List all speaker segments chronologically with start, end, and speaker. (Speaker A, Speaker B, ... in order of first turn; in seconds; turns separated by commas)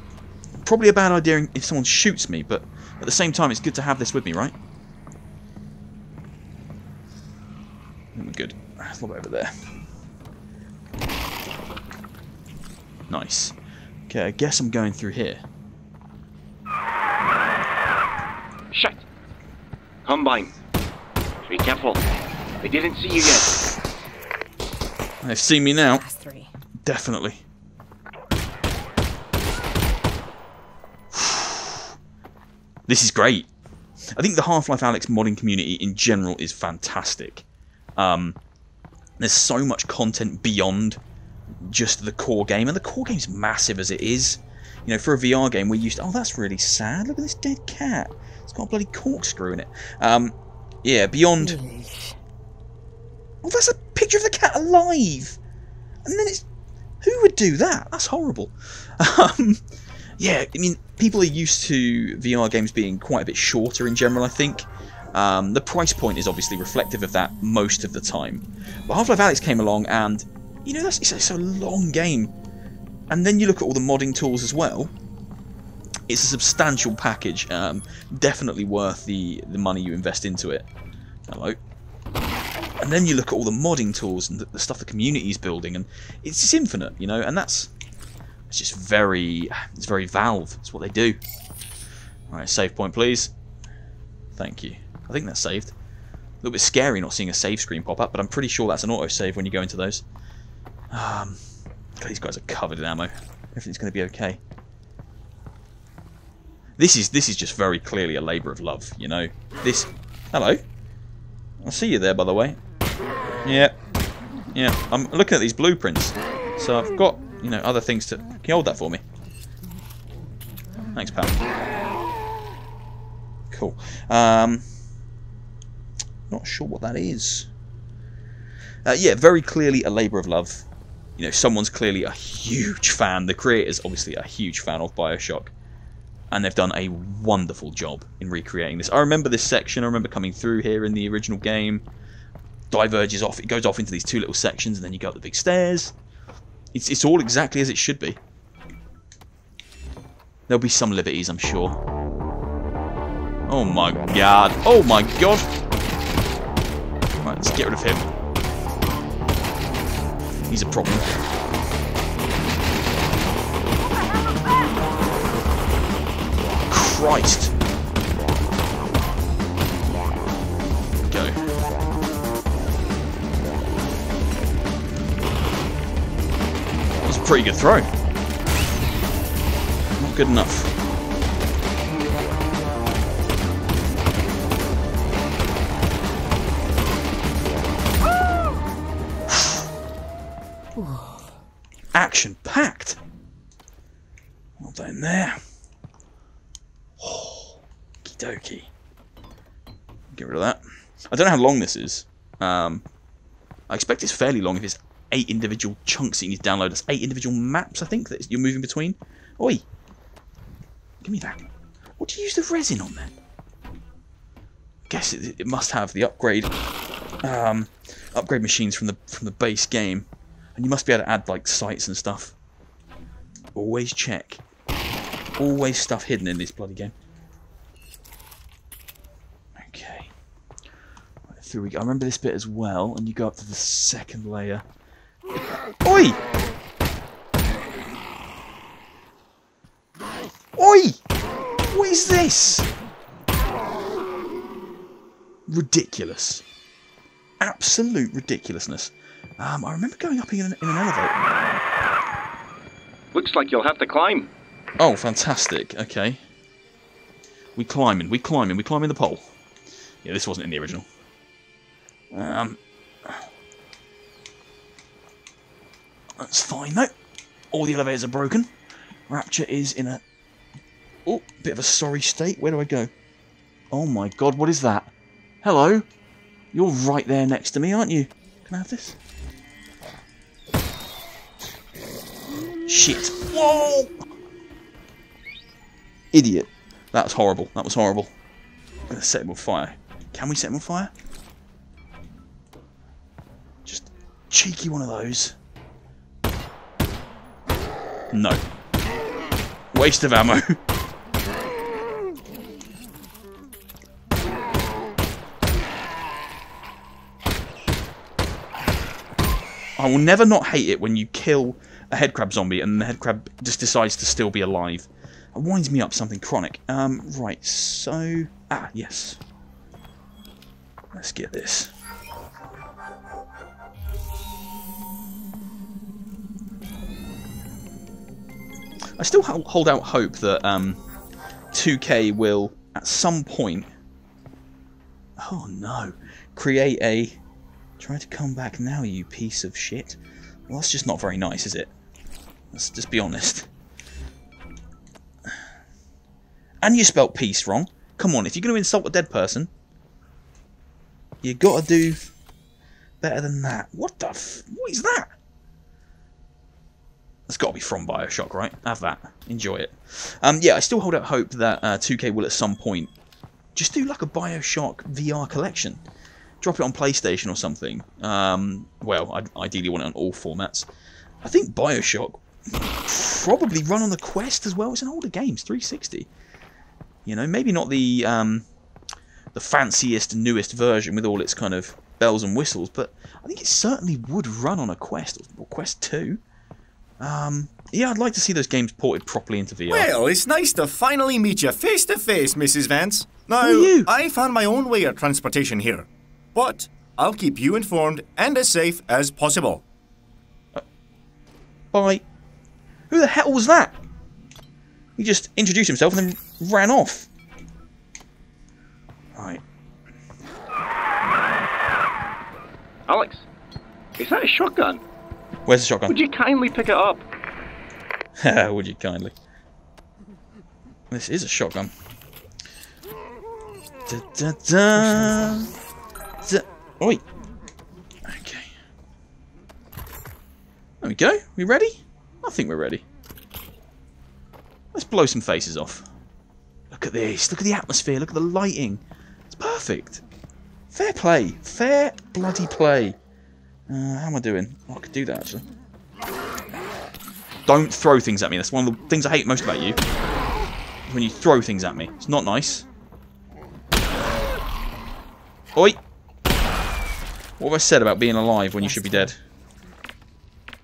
Speaker A: 0.6-4.5, Speaker A: 8.1-9.7, Speaker A: 13.1-13.6, Speaker A: 14.1-15.4, Speaker B: 18.7-19.0, Speaker B: 20.1-20.5, Speaker B: 21.5-22.0, Speaker B: 22.6-23.6, Speaker A: 25.2-26.0, Speaker C: 25.9-26.5, Speaker A: 26.8-27.4, Speaker A: 31.1-31.8, Speaker A: 32.9-33.5, Speaker A: 34.1-37.5, Speaker A: 38.0-38.4, Speaker A: 39.2-41.0, Speaker A: 41.6-51.6, Speaker C: 51.4-52.2, Speaker A: 53.4-55.4, Speaker A: 56.0-56.5, Speaker A: 57.0-59.6, Speaker A: 60.2-72.3, Speaker A: 73.1-74.9, Speaker A: 76.1-80.7, Speaker A: 81.3-81.6, Speaker A: 82.8-87.7, Speaker A: 88.5-91.2, Speaker A: 92.3-93.3, Speaker A: 94.4-95.7, Speaker A: 96.4-100.0, Speaker A: 100.9-101.4, Speaker A: 102.0-104.4, Speaker A: 106.8-110.6, Speaker A: 111.6-112.6, Speaker A: 113.4-113.8, Speaker A: 114.5-119.0, Speaker A: 120.9-121.4, Speaker A: 123.5-124.6, Speaker A: 126.3-127.5, Speaker A: 128.9-130.7, Speaker A: 131.2-135.5, Speaker A: 136.3-141.8, Speaker A: 142.7-145.9, Speaker A: 146.7-148.2, Speaker A: 150.5-151.8, Speaker A: 153.5-155.5, Speaker A: 157.2-158.1, Speaker A: 160.5-161.2, Speaker A: 166.7-167.5, Speaker A: 171.1-171.4, Speaker A: 177.0-177.9, Speaker A: 180.0-180.7, Speaker C: 190.8-191.3, Speaker A: 191.9-193.0, Speaker A: 194.6-195.4, Speaker A: 197.0-198.7, Speaker A: 200.1-202.8, Speaker A: 203.7-209.6, Speaker A: 211.0-213.2, Speaker A: 214.9-216.5, Speaker A: 217.2-222.3, Speaker A: 223.6-224.4, Speaker A: 225.4-226.9, Speaker A: 229.6-230.1, Speaker A: 231.3-234.6, Speaker A: 235.8-236.2, Speaker A: 240.6-241.0, Speaker A: 241.7-242.7, Speaker A: 245.5-246.4, Speaker A: 247.4-251.2, Speaker B: 253.1-254.3, Speaker A: 254.8-256.2, Speaker A: 257.6-259.3, Speaker A: 260.0-260.9, Speaker A: 262.1-263.3, Speaker A: 266.2-266.9, Speaker A: 267.5-268.5, Speaker A: 269.1-270.0, Speaker A: 271.1-272.9, Speaker A: 273.7-274.9, Speaker A: 275.4-275.9, Speaker A: 276.5-279.0, Speaker A: 282.7-284.0, Speaker A: 286.1-288.1, Speaker A: 288.9-290.9, Speaker A: 293.7-295.4, Speaker A: 298.1-298.4, Speaker A: 299.7-300.6, Speaker A: 309.8-319.2, Speaker A: 320.9-321.7, Speaker A: 329.0-330.8, Speaker A: 331.5-333.7, Speaker A: 335.2-337.2, Speaker A: 337.8-341.7, Speaker A: 342.5-343.5, Speaker A: 346.6-349.5, Speaker A: 351.2-352.0, Speaker A: 353.0-355.1, Speaker A: 357.3-362.9, Speaker A: 363.6-365.8, Speaker A: 366.4-370.7, Speaker A: 371.2-376.1, Speaker A: 377.1-378.5, Speaker A: 379.3-386.2, Speaker A: 387.0-389.9, Speaker D: 389.7-399.6, Speaker A: 393.4-393.9, Speaker A: 401.7-402.0, Speaker A: 402.9-403.8, Speaker A: 405.0-407.1, Speaker A: 409.1-409.4, Speaker B: 412.9-413.3, Speaker B: 414.0-414.8, Speaker A: 415.5-416.0, Speaker B: 415.9-417.1, Speaker A: 418.2-419.1, Speaker A: 420.9-421.7, Speaker A: 423.9-425.5, Speaker A: 426.2-427.0, Speaker A: 428.1-428.5, Speaker A: 430.8-432.9, Speaker A: 434.7-435.9, Speaker A: 436.7-440.0, Speaker A: 440.7-443.0, Speaker A: 443.7-445.4, Speaker A: 447.5-449.8, Speaker A: 450.9-452.7, Speaker A: 457.4-459.2, Speaker C: 458.6-459.2